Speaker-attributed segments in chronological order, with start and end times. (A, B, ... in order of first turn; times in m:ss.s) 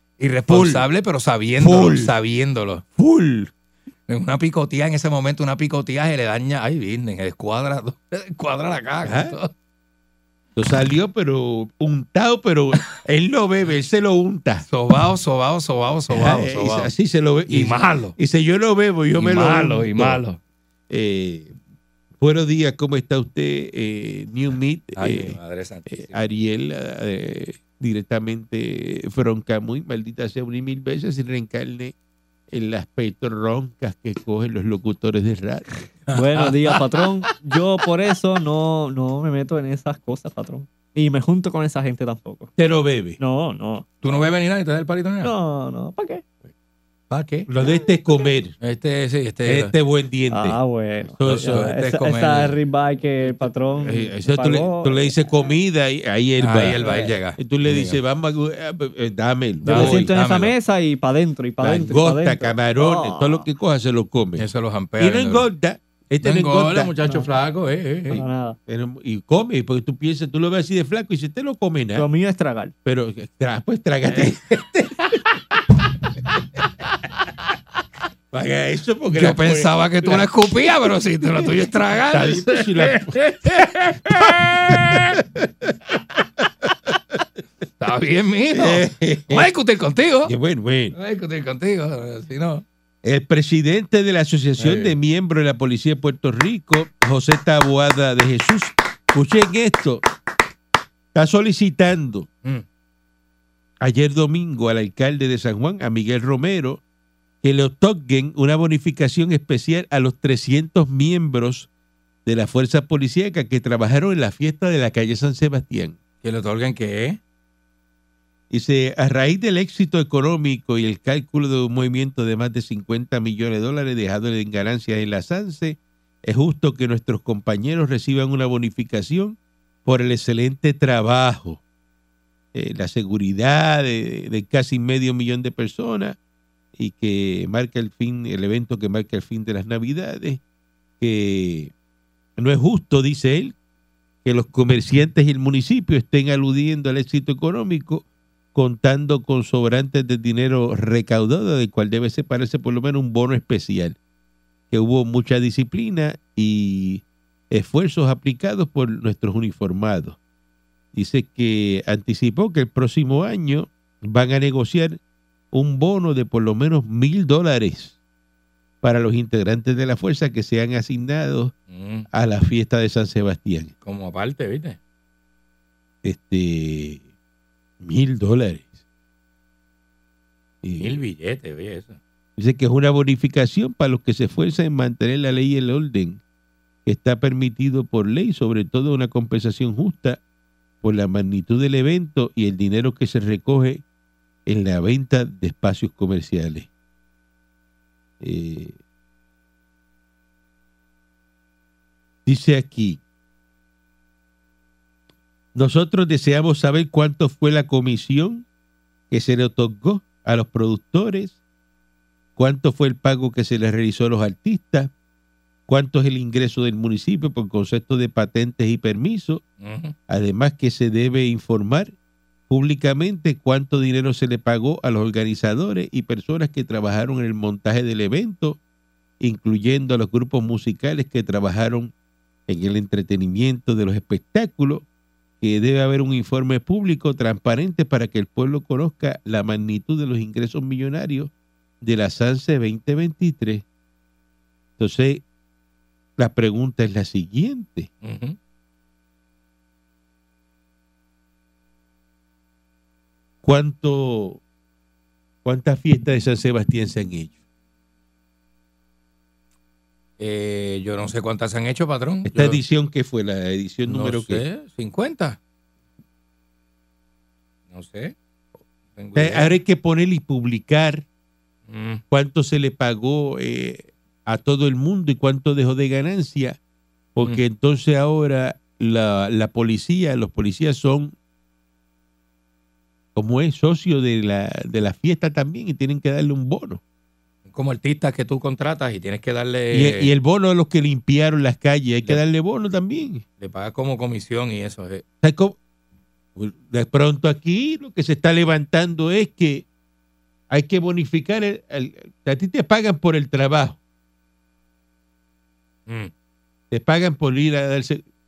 0:00.2-0:02.8 A
0:00.5-0:00.9 B
0:01.6-0:02.1 B
0:03.0-0:03.5 B
0:04.1-0:09.5 A
0:09.0-0:09.3 B
0:10.6-0:14.6 B
0:14.7-0:16.9 A
0:16.1-0:20.2 B
0:17.5-0:18.2 A
0:19.2-0:20.4 A
0:20.9-0:21.5 B
0:22.2-0:31.9 B
0:25.0-0:26.2 A
0:32.5-0:35.6 B
0:36.1-0:36.8 A
0:36.1-0:42.5 C
0:42.6-0:43.2 B
0:43.2-0:43.9 C
0:44.0-0:45.3 A
0:45.2-0:46.2 C
0:47.1-0:47.5 A
0:47.5-0:48.5 B
0:48.6-0:49.7 A
0:49.4-0:50.6 B
0:50.3-0:55.5 C
0:51.2-0:51.7 B
0:51.3-0:52.6 A
0:53.8-1:00.1 B
0:56.4-0:58.0 A
0:59.6-1:00.5 A
0:59.6-1:03.4 C
1:01.6-1:04.4 B
1:04.4-1:05.4 A
1:05.0-1:06.9 B
1:06.2-1:08.2 A
1:08.1-1:12.1 B
1:08.1-1:08.6 C
1:12.0-1:12.7 C
1:12.8-1:15.2 B
1:18.3-1:20.3 B
1:19.1-1:25.2 A
1:21.4-1:25.7 B
1:26.6-1:27.2 B
1:27.8-1:30.3 A
1:28.5-1:29.5 B
1:30.2-1:30.9 B
1:30.9-1:32.6 A
1:33.0-1:40.0 B
1:34.6-1:35.0 A
1:41.1-1:42.3 B
1:43.8-1:46.8 B
1:47.4-1:51.7 B
1:52.2-1:56.0 B
1:56.2-1:57.2 A
1:58.5-2:11.6 B
2:12.5-2:16.2 B
2:16.8-2:20.4 B
2:21.0-2:21.7 B
2:22.4-2:23.5 B
2:24.2-2:34.0 B
2:34.7-2:40.2 B
2:40.9-2:45.0 B
2:45.5-2:48.0 B
2:48.8-2:51.5 B
2:51.7-2:52.1 A
2:52.1-2:53.7 B
2:53.8-2:54.8 A
2:56.0-2:57.0 B
2:57.8-2:58.8 B
3:00.6-3:01.0 B
3:00.8-3:02.0 A
3:02.4-3:06.2 B
3:06.8-3:10.2 B
3:10.8-3:13.8 B
3:14.4-3:16.7 B
3:18.2-3:18.8 B
3:22.2-3:23.0 B
3:25.5-3:28.4 B
3:29.1-3:31.4 B
3:32.4-3:34.9 B
3:35.7-3:39.4 B
3:39.6-3:40.0 A
3:40.1-3:41.9 B
3:42.5-3:48.6 B
3:49.2-3:51.9 B
3:52.5-3:54.8 B
3:55.4-4:03.6 B
4:04.8-4:05.2 B
4:06.2-4:07.9 B
4:08.0-4:08.4 A
4:13.4-4:14.4 B
4:15.4-4:17.3 B
4:20.2-4:22.6 A
4:22.3-4:24.4 B
4:23.9-4:25.4 A
4:27.7-4:28.1 A
4:28.9-4:29.6 A
4:29.1-4:31.0 B
4:31.7-4:32.0 A
4:32.1-4:36.6 B
4:37.1-4:41.1 B
4:43.1-4:46.8 B
4:47.5-4:50.1 A
4:49.7-4:53.2 B
4:53.4-4:55.0 A
4:55.2-4:55.6 B
4:56.4-4:59.6 B
5:00.5-5:03.8 B
5:06.7-5:08.0 B